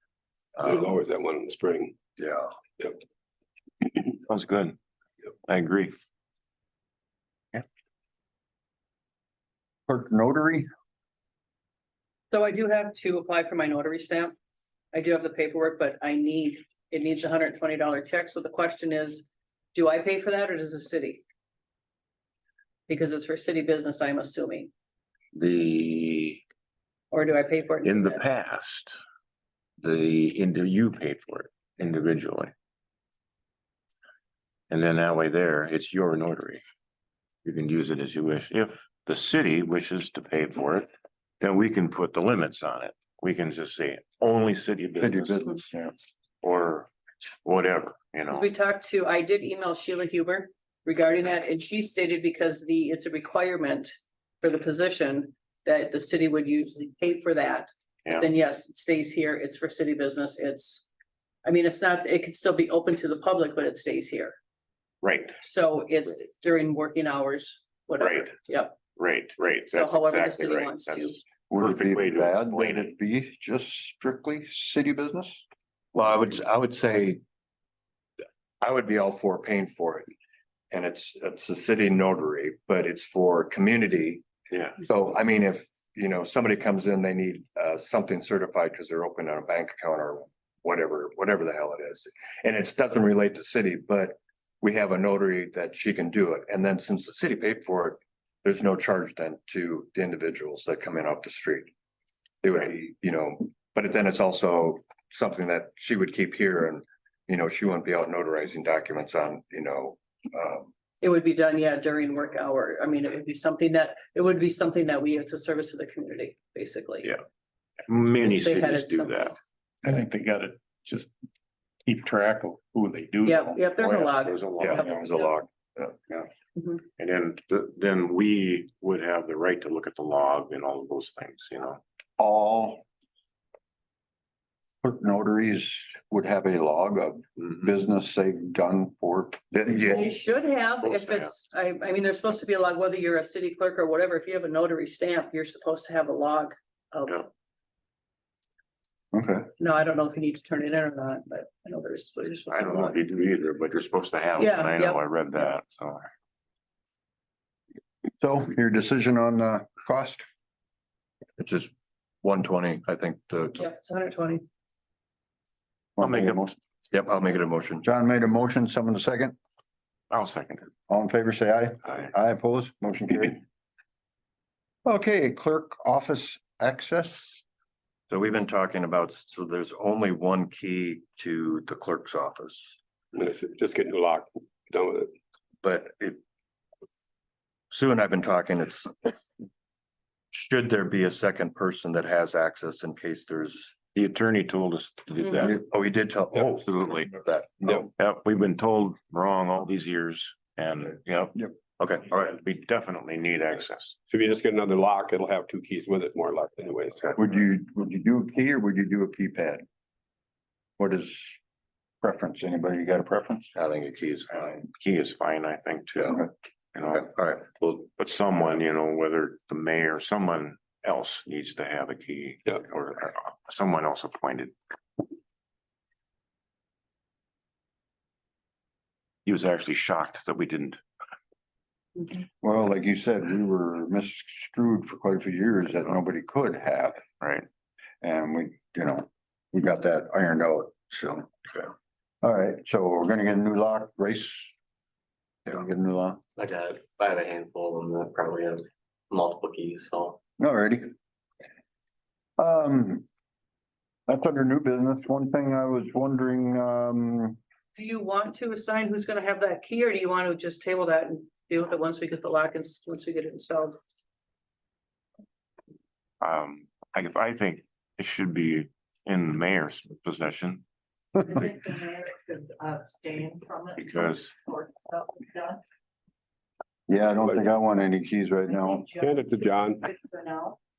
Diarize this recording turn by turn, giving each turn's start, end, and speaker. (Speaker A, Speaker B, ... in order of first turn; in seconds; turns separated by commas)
Speaker A: 0.5-0.9, Speaker B: 0.6-1.9, Speaker A: 2.2-2.5, Speaker C: 4.2-4.8, Speaker C: 5.5-6.0, Speaker D: 9.9-10.7, Speaker E: 12.3-14.3, Speaker E: 14.9-21.2, Speaker E: 22.9-24.7, Speaker C: 25.3-26.4, Speaker E: 27.1-28.2, Speaker C: 27.8-29.0, Speaker C: 29.8-32.5, Speaker C: 34.7-36.6, Speaker C: 37.4-40.9, Speaker C: 41.4-45.4, Speaker D: 45.0-45.9, Speaker C: 46.4-46.9, Speaker C: 47.4-48.5, Speaker E: 48.3-60.9, Speaker C: 58.0-58.3, Speaker E: 61.4-64.3, Speaker C: 65.0-65.4, Speaker E: 65.4-68.8, Speaker C: 68.0-68.3, Speaker C: 68.9-72.9, Speaker E: 69.7-71.2, Speaker D: 71.5-75.4, Speaker A: 75.9-77.2, Speaker A: 78.6-80.1, Speaker A: 80.7-101.7, Speaker A: 102.4-110.7, Speaker E: 111.0-117.1, Speaker C: 117.9-119.3, Speaker E: 118.2-119.3, Speaker F: 119.8-121.1, Speaker F: 121.8-123.7, Speaker E: 123.2-125.3, Speaker C: 123.8-125.0, Speaker A: 124.6-125.9, Speaker C: 127.0-131.8, Speaker D: 132.2-132.8, Speaker D: 134.8-140.0, Speaker A: 139.5-140.1, Speaker E: 139.9-147.2, Speaker C: 140.8-141.3, Speaker D: 149.1-149.5, Speaker E: 149.6-153.0, Speaker C: 152.5-156.1, Speaker E: 154.4-155.0, Speaker D: 158.2-160.2, Speaker A: 161.4-163.7, Speaker E: 163.6-164.4, Speaker D: 166.0-166.5, Speaker C: 166.0-166.5, Speaker A: 166.9-167.9, Speaker D: 167.8-169.3, Speaker C: 170.1-170.7, Speaker D: 170.9-173.4, Speaker D: 174.8-177.4, Speaker A: 178.1-182.8, Speaker B: 183.1-185.1, Speaker A: 185.6-186.2, Speaker A: 187.7-189.2, Speaker A: 190.3-193.8, Speaker C: 193.9-195.6, Speaker A: 195.4-197.9, Speaker C: 196.4-197.1, Speaker C: 198.0-201.4, Speaker A: 201.8-202.3, Speaker C: 202.0-203.9, Speaker B: 204.1-207.2, Speaker D: 207.2-209.6, Speaker D: 210.8-211.4, Speaker D: 212.0-213.5, Speaker A: 213.5-214.7, Speaker C: 214.7-224.5, Speaker A: 215.9-216.2, Speaker A: 216.8-217.6, Speaker C: 229.2-230.8, Speaker D: 232.4-237.0, Speaker C: 237.2-237.4, Speaker D: 238.0-241.4, Speaker D: 242.2-244.5, Speaker D: 245.4-246.2, Speaker G: 246.3-250.2, Speaker D: 250.4-250.9, Speaker D: 252.4-253.1, Speaker D: 254.1-257.4, Speaker E: 257.8-263.8, Speaker C: 266.2-270.6, Speaker H: 271.2-275.6, Speaker C: 273.8-274.3, Speaker D: 276.9-278.9, Speaker B: 277.2-277.5, Speaker H: 278.4-280.6, Speaker B: 279.0-279.8